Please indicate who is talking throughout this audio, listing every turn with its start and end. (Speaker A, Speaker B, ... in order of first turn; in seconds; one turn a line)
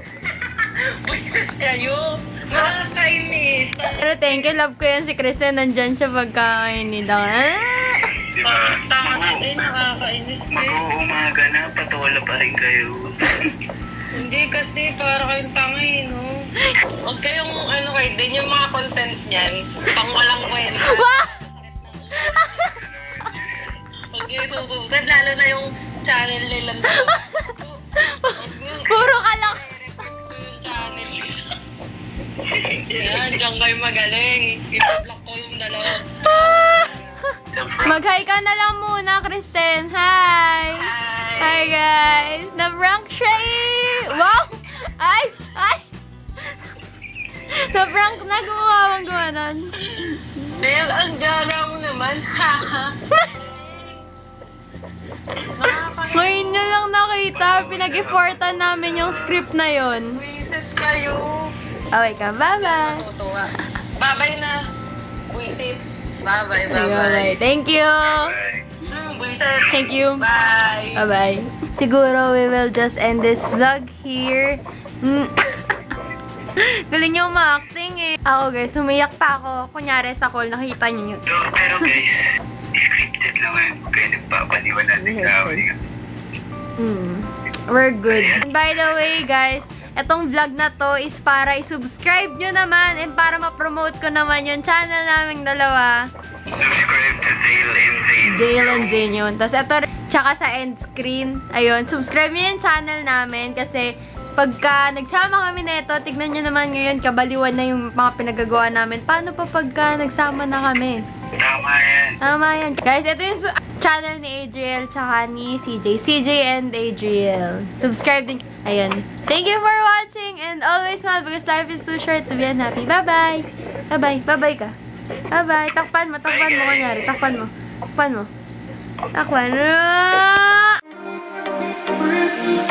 Speaker A: 0.3-4.4
Speaker B: 4.0-8.1
Speaker C: 8.3-9.7
Speaker A: 8.4-10.8
Speaker C: 10.5-13.3
Speaker A: 14.1-16.3
Speaker A: 17.0-22.8
Speaker B: 20.8-21.3
Speaker B: 22.1-22.8
Speaker C: 22.8-23.6
Speaker A: 24.1-31.4
Speaker B: 26.9-29.6
Speaker C: 32.7-33.4
Speaker A: 32.9-37.2
Speaker B: 36.2-36.9
Speaker C: 37.5-38.2
Speaker B: 37.8-45.8
Speaker A: 40.7-41.7
Speaker B: 47.5-49.7
Speaker A: 49.8-54.0
Speaker A: 55.5-56.7
Speaker B: 56.1-60.2
Speaker C: 57.3-59.5
Speaker A: 60.1-61.5
Speaker B: 61.9-63.0
Speaker A: 62.5-64.6
Speaker A: 65.3-67.3
Speaker B: 66.7-68.4
Speaker C: 68.0-68.8
Speaker A: 68.9-71.0
Speaker B: 69.7-70.2
Speaker B: 71.0-75.5
Speaker B: 76.6-81.2
Speaker C: 81.2-85.8
Speaker B: 85.0-85.6
Speaker B: 86.8-96.1
Speaker C: 88.1-89.3
Speaker C: 96.5-99.1
Speaker B: 98.2-111.0
Speaker C: 111.4-112.2
Speaker B: 112.2-124.7
Speaker B: 125.3-128.3
Speaker C: 126.2-127.4
Speaker B: 129.1-130.8